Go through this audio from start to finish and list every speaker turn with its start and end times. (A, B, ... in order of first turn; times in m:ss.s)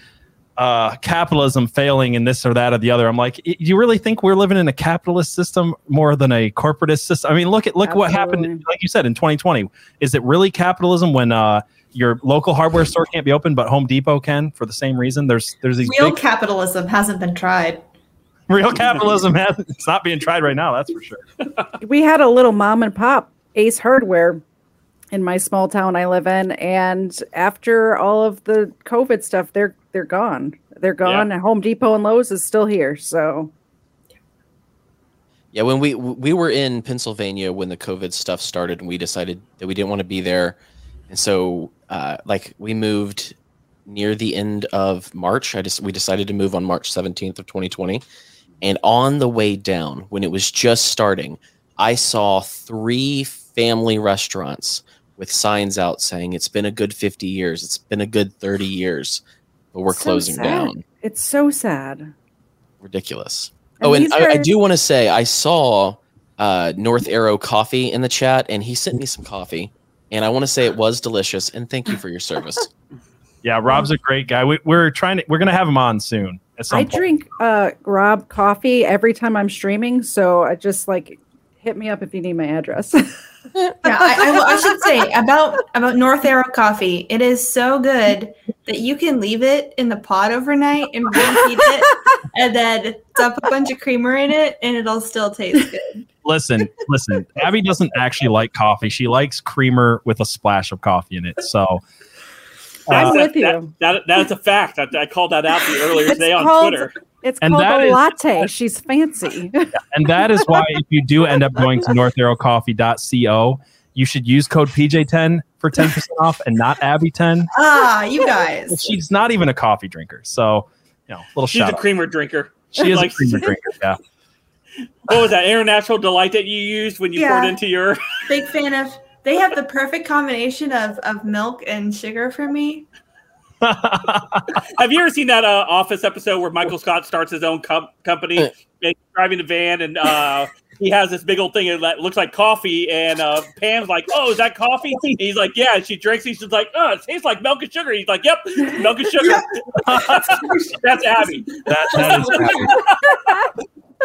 0:00.6-0:16.2 A
0:07.8-0:08.6 B
0:15.8-0:17.8 C
0:18.5-0:21.2 A
0:21.8-0:24.4 B
0:25.1-0:33.5 B
0:35.5-0:40.6 D
0:41.1-0:43.4 D
0:43.9-0:48.0 D
0:48.6-0:59.2 D
0:59.7-1:00.8 D
0:59.9-1:02.1 B
1:02.8-1:12.7 D
1:03.8-1:04.5 B
1:13.4-1:17.0 A
1:16.7-1:23.2 B
1:23.8-1:36.0 C
1:24.3-1:24.6 B
1:36.2-1:41.8 A
1:42.9-1:43.2 A
1:42.9-1:46.9 E
1:42.9-1:43.7 B
1:46.1-1:49.7 B
1:47.4-1:48.1 A
1:49.9-1:57.5 A
1:57.5-1:59.0 C
1:58.7-2:01.8 A
2:01.5-2:03.5 E
2:02.7-2:04.0 A
2:05.0-2:08.0 E
2:07.2-2:07.6 C
2:08.3-2:12.9 C
2:13.6-2:14.4 A
2:14.8-2:29.6 E
2:29.8-2:30.4 A
2:30.0-2:31.3 C
2:30.4-2:33.2 E
2:31.7-2:32.8 A
2:31.9-2:32.7 C